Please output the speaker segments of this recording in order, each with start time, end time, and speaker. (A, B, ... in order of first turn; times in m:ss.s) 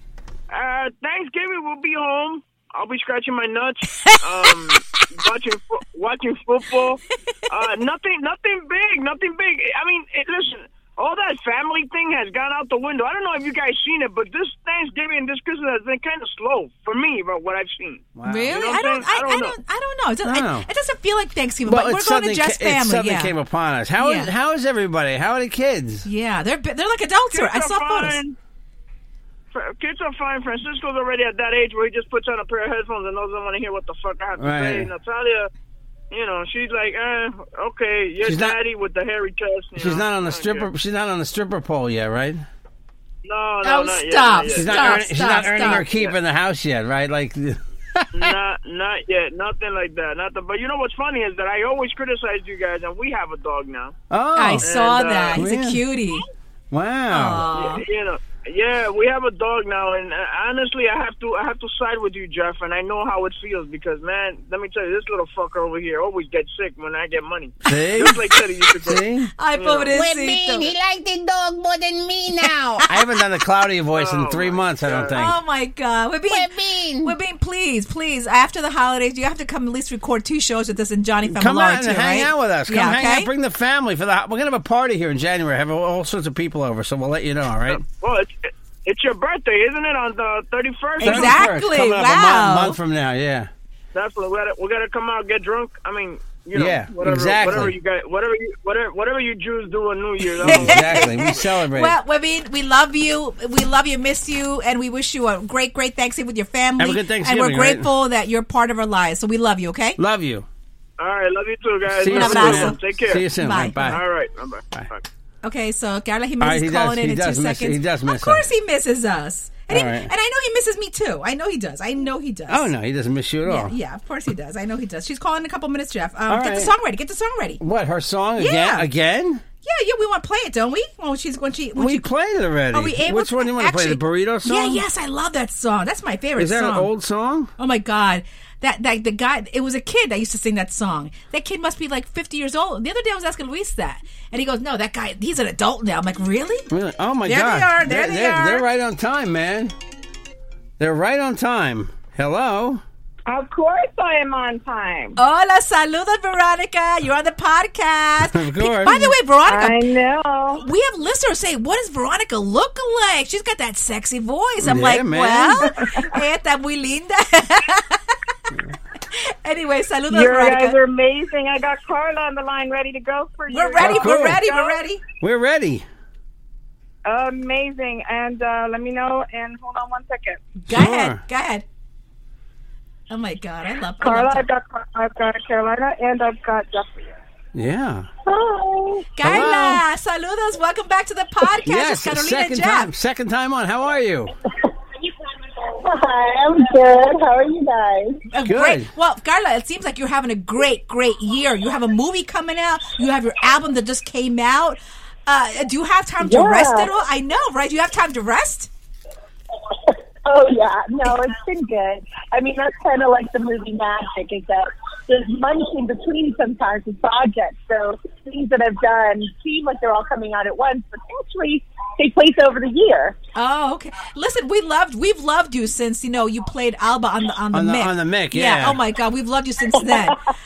0:00.5-0:19.6 A
0:18.2-0:18.7 B
0:18.3-0:23.3 C
0:20.2-0:20.7 B
0:21.6-0:26.1 B
0:24.0-0:24.3 C
0:26.0-0:28.2 C
0:27.3-0:28.4 A
0:29.5-0:35.5 A
0:34.4-0:34.9 B
0:36.1-0:40.7 A
0:38.2-0:38.6 B
0:39.8-0:42.4 B
0:43.2-0:45.0 A
0:43.6-0:45.9 C
0:44.5-0:48.3 B
0:45.6-0:46.1 A
0:48.2-0:54.0 A
0:54.1-0:54.7 B
0:54.4-0:56.3 C
0:54.6-0:55.4 A
0:55.3-0:55.8 B
0:56.7-0:57.5 B
0:57.1-0:57.8 C
0:57.5-1:10.0 A
1:07.7-1:08.3 B
1:08.8-1:09.3 B
1:09.4-1:10.7 C
1:09.9-1:12.8 D
1:12.4-1:13.1 C
1:12.8-1:15.4 B
1:13.9-1:15.2 A
1:15.1-1:23.3 C
1:16.3-1:17.0 D
1:21.3-1:27.8 B
1:27.7-1:31.4 A
1:31.0-1:32.8 C
1:31.0-1:33.5 B
1:33.9-1:41.1 A
1:36.5-1:37.8 B
1:40.4-1:42.0 B
1:40.4-1:50.0 C
1:46.8-1:47.9 B
1:50.0-1:50.5 B
1:51.0-1:53.2 A
1:52.0-1:54.0 B
1:52.1-1:52.8 C
1:53.4-1:54.0 C
1:53.9-1:55.0 A
1:55.4-2:02.7 C
1:56.4-1:58.5 B
1:59.7-2:00.1 B
2:02.5-2:03.7 B
2:03.5-2:07.6 C
2:06.3-2:06.7 B
2:07.6-2:09.4 B
2:08.4-2:08.9 C
2:09.6-2:12.1 C
2:11.8-2:14.8 B
2:12.7-2:16.9 C
2:16.4-2:17.5 B
2:17.6-2:26.7 C
2:26.7-2:29.7 B
2:27.2-2:28.7 C
2:30.8-2:32.8 B
2:33.3-2:35.2 E
2:35.2-2:39.8 C
2:38.3-2:39.2 B
2:39.5-2:40.7 E
2:40.6-2:48.2 C
2:44.6-2:45.8 B
2:49.1-2:50.8 C
2:50.1-2:54.8 E
2:53.5-2:55.0 C
2:53.8-2:54.4 B
2:55.2-2:55.9 B
2:57.1-3:00.5 E
3:00.6-3:01.6 C
3:00.7-3:01.2 B
3:03.1-3:04.4 C
3:04.0-3:07.2 E
3:07.5-3:08.1 B
3:08.3-3:09.1 F
3:09.2-3:12.9 C
3:09.2-3:09.8 B
3:11.6-3:14.3 B
3:15.7-3:18.2 F
3:18.3-3:28.7 C
3:18.4-3:18.9 B
3:26.2-3:26.9 F
3:29.9-3:43.2 F
3:43.4-3:50.2 C
3:47.5-3:48.8 B
3:49.9-3:50.2 F